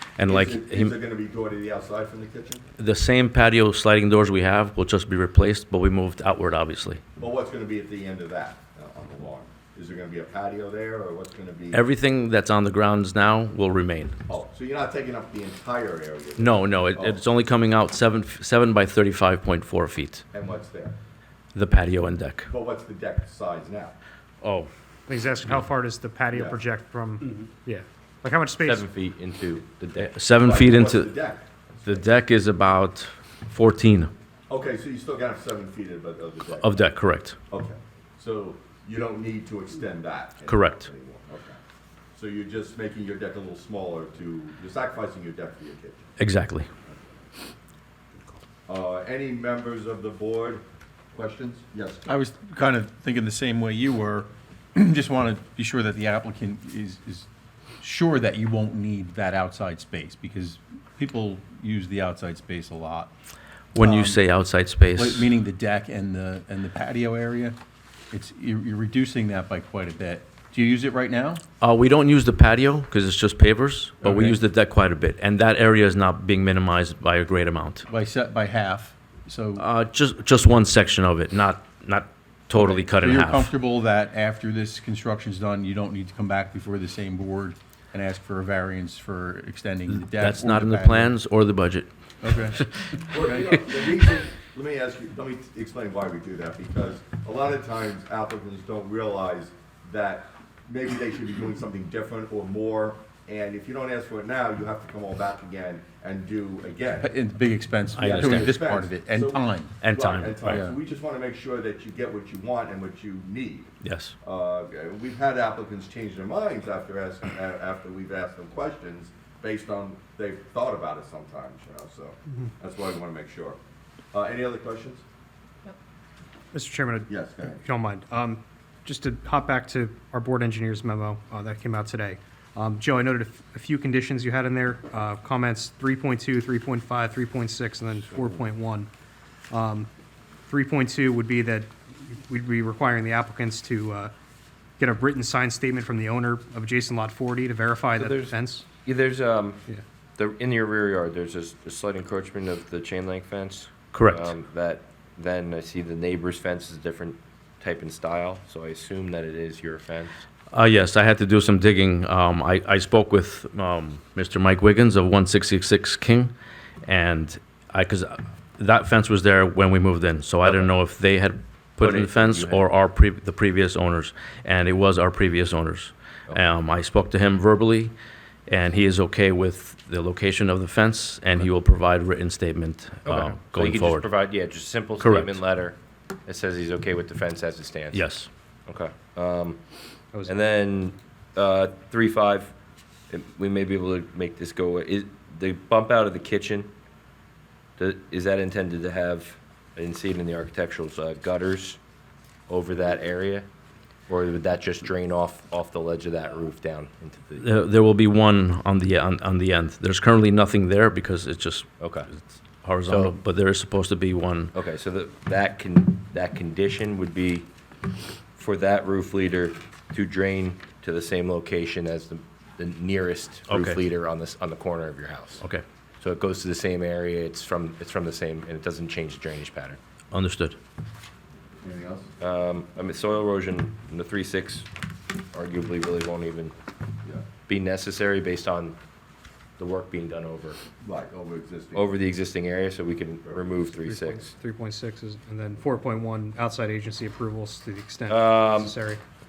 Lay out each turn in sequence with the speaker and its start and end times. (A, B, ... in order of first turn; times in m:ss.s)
0:00.2-0:01.0 A
0:00.3-0:02.6 B
0:02.8-0:07.0 A
0:07.2-0:11.8 B
0:11.7-0:14.2 A
0:14.3-0:17.2 B
0:16.4-0:20.2 A
0:20.3-0:21.0 B
0:21.6-0:22.5 A
0:22.5-0:23.9 B
0:24.4-0:24.7 A
0:25.1-0:28.8 C
0:26.3-0:26.6 B
0:28.6-0:30.1 D
0:30.0-0:31.1 A
0:30.4-0:32.1 B
0:31.9-0:34.1 A
0:34.5-0:37.0 B
0:36.6-0:37.4 A
0:37.5-0:41.6 B
0:40.5-0:40.9 A
0:42.1-0:46.1 B
0:46.2-0:46.7 A
0:48.7-0:52.1 B
0:52.0-0:57.3 E
0:57.8-1:03.1 E
1:03.7-1:05.3 A
1:03.7-1:04.2 E
1:05.0-1:07.6 E
1:08.1-1:11.4 E
1:11.6-1:17.9 A
1:14.0-1:14.4 E
1:17.9-1:19.6 E
1:19.6-1:23.5 A
1:22.5-1:31.2 E
1:29.9-1:31.9 A
1:32.2-1:32.6 E
1:32.4-1:33.0 A
1:33.0-1:47.1 B
1:47.0-1:49.7 E
1:47.9-1:48.5 A
1:48.0-1:53.7 B
1:49.8-1:50.6 A
1:50.5-1:50.8 E
1:53.8-1:54.2 A
1:54.2-2:03.6 B
2:04.1-2:05.0 B
2:06.5-2:18.9 C
2:07.1-2:07.6 B
2:18.1-2:18.4 D
2:19.5-2:19.9 C
2:20.5-2:24.1 C
2:24.8-2:28.7 C
2:27.9-2:29.6 D
2:30.2-2:40.2 D
2:33.9-2:34.3 A
2:40.5-2:46.3 A
2:46.8-2:57.9 A
2:50.4-2:50.7 D
2:51.8-2:52.6 D
2:58.5-3:04.1 A
3:03.1-3:08.0 D
3:05.0-3:05.4 A
3:07.9-3:08.3 A
3:08.7-3:09.6 D
3:10.2-3:12.5 D
3:13.1-3:16.7 D
3:17.8-3:21.8 D
3:22.5-3:23.5 D
3:24.1-3:27.5 D
3:27.4-3:34.5 A
3:31.8-3:32.1 D
3:32.9-3:33.2 D
3:34.5-3:37.5 D
3:38.4-3:45.4 D
3:43.5-3:43.8 A
3:46.0-3:49.8 D
3:50.1-3:50.6 A
3:51.6-3:52.1 B
3:52.2-3:56.6 D
3:57.5-3:58.8 D
3:59.6-4:00.6 D
4:00.8-4:01.9 B
4:01.8-4:04.3 D
4:03.2-4:03.5 B
4:03.8-4:09.0 C
4:08.1-4:08.8 D